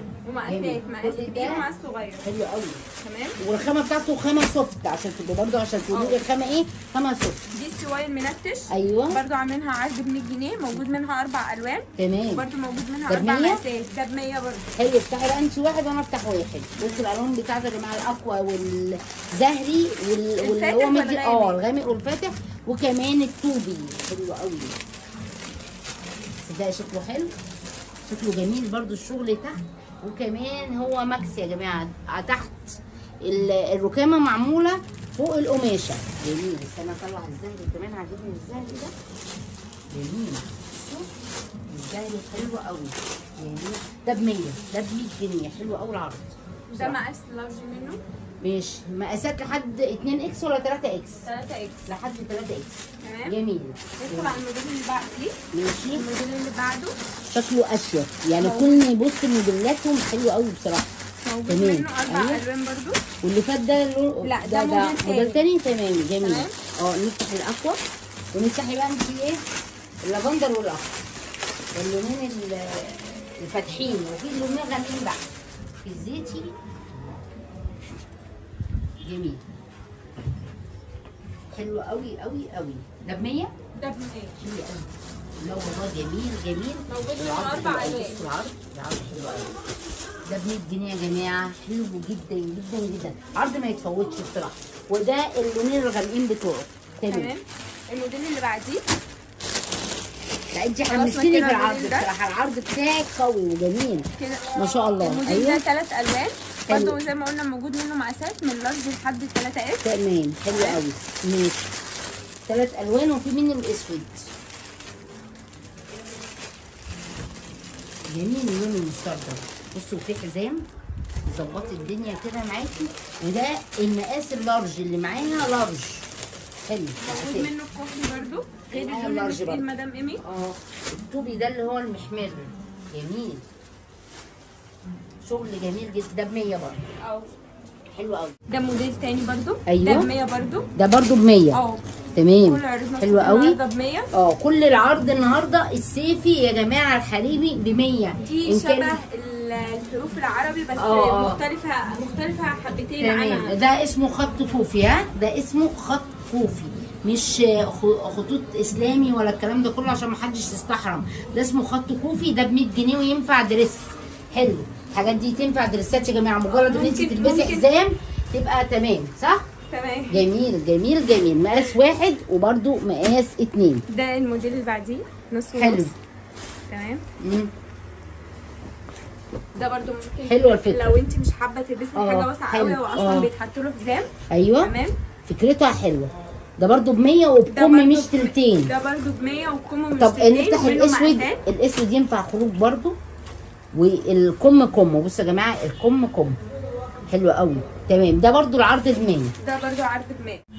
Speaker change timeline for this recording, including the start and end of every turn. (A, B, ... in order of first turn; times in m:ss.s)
0:00.2-0:02.2 A
0:00.4-0:01.7 B
0:02.2-0:02.8 B
0:03.0-0:03.4 A
0:03.4-0:07.4 B
0:05.9-0:06.2 A
0:07.5-0:14.7 A
0:08.7-0:09.2 B
0:12.0-0:12.5 B
0:13.1-0:13.6 B
0:14.8-0:24.8 B
0:20.4-0:21.6 A
0:26.4-0:27.3 B
0:28.1-0:38.9 B
0:39.9-0:41.1 B
0:41.7-0:47.0 B
0:46.7-0:48.0 A
0:48.4-0:51.2 B
0:51.2-0:51.8 A
0:51.9-0:54.4 B
0:53.0-0:53.4 A
0:54.0-0:55.4 A
0:55.5-0:56.0 B
0:55.9-0:57.0 A
0:57.3-1:00.9 B
0:58.4-0:58.7 A
1:01.2-1:03.0 A
1:01.5-1:02.4 B
1:03.2-1:07.8 B
1:04.2-1:05.4 A
1:06.2-1:06.5 A
1:08.3-1:09.4 B
1:10.0-1:10.9 B
1:11.7-1:15.2 B
1:15.8-1:16.5 B
1:19.0-1:19.4 B
1:21.5-1:23.5 B
1:23.8-1:24.4 A
1:24.4-1:24.9 B
1:25.4-1:29.6 B
1:26.9-1:28.2 A
1:30.3-1:37.3 B
1:37.1-1:38.8 A
1:40.5-1:45.6 B
1:40.9-1:42.1 A
1:44.2-1:49.9 A
1:46.7-1:47.0 B
1:49.8-1:51.7 B
1:50.5-1:50.8 A
1:52.5-1:54.3 B
1:58.1-2:00.6 B
2:01.3-2:06.1 B
2:06.6-2:07.5 B
2:07.0-2:10.2 A
2:08.7-2:09.7 B
2:10.2-2:13.4 B
2:15.2-2:16.8 B
2:17.0-2:17.3 A
2:17.9-2:18.3 B
2:18.5-2:20.7 A
2:19.7-2:20.1 B
2:20.8-2:21.6 B
2:21.5-2:21.8 A
2:22.1-2:23.6 B
2:22.4-2:24.1 A
2:24.1-2:29.0 B
2:28.2-2:33.6 A
2:30.8-2:31.4 B
2:33.0-2:49.5 B
2:46.5-2:47.7 A
2:49.7-2:50.2 A
2:50.1-2:53.8 B
2:53.9-2:55.9 A
2:55.5-2:55.9 B
2:56.7-2:57.0 A
2:57.2-2:57.5 B
2:59.5-3:04.9 A
3:00.2-3:01.0 B
3:01.9-3:03.3 B
3:04.3-3:04.7 B
3:05.2-3:08.7 B
3:07.5-3:11.4 A
3:10.0-3:13.0 B
3:13.7-3:16.4 B
3:17.1-3:19.3 B
3:19.4-3:20.4 A